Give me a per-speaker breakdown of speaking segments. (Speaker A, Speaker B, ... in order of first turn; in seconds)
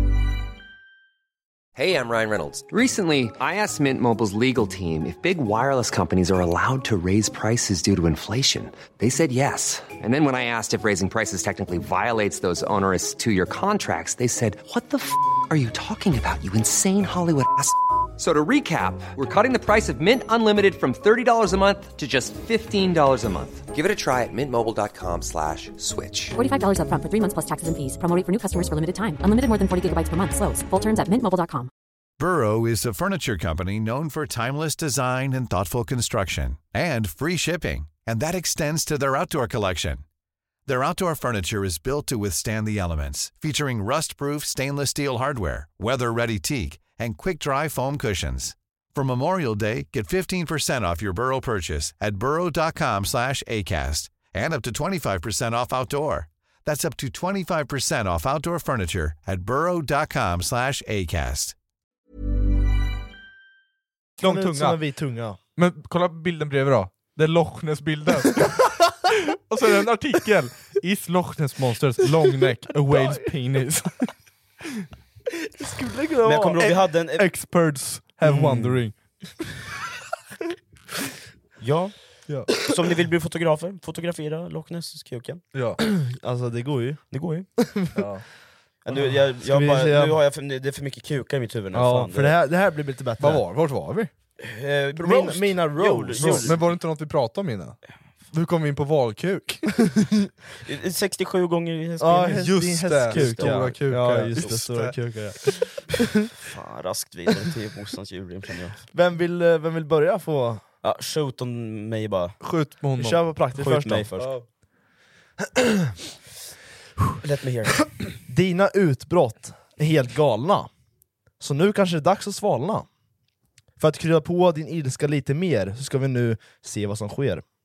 Speaker A: 1.7-26.4
Speaker B: 26.3-31.7
Speaker C: 32.2-40.0, 40.6-61.5
Speaker D: 64.2-64.8, 65.5-74.1, 76.6-78.9, 85.5-85.8, 88.0-88.2, 93.2-94.1, 96.2-97.8, 98.3-99.8, 102.3-105.0, 112.4-113.2
Speaker E: 64.2-65.4, 72.9-73.2, 75.6-76.6, 85.8-87.0, 87.6-88.1, 89.0-90.1, 91.7-93.4, 95.0-96.6, 102.0-106.1, 108.9-110.6, 113.0-114.3, 118.3-120.7, 121.4-122.9, 123.8-127.4
Speaker F: 76.2-77.3, 78.2-78.8, 81.6-81.9, 82.5-85.4, 87.1-87.5, 88.8-92.4, 94.4-96.6, 100.7-103.7, 106.4-108.8, 110.8-112.4, 113.6-114.3, 117.2-117.8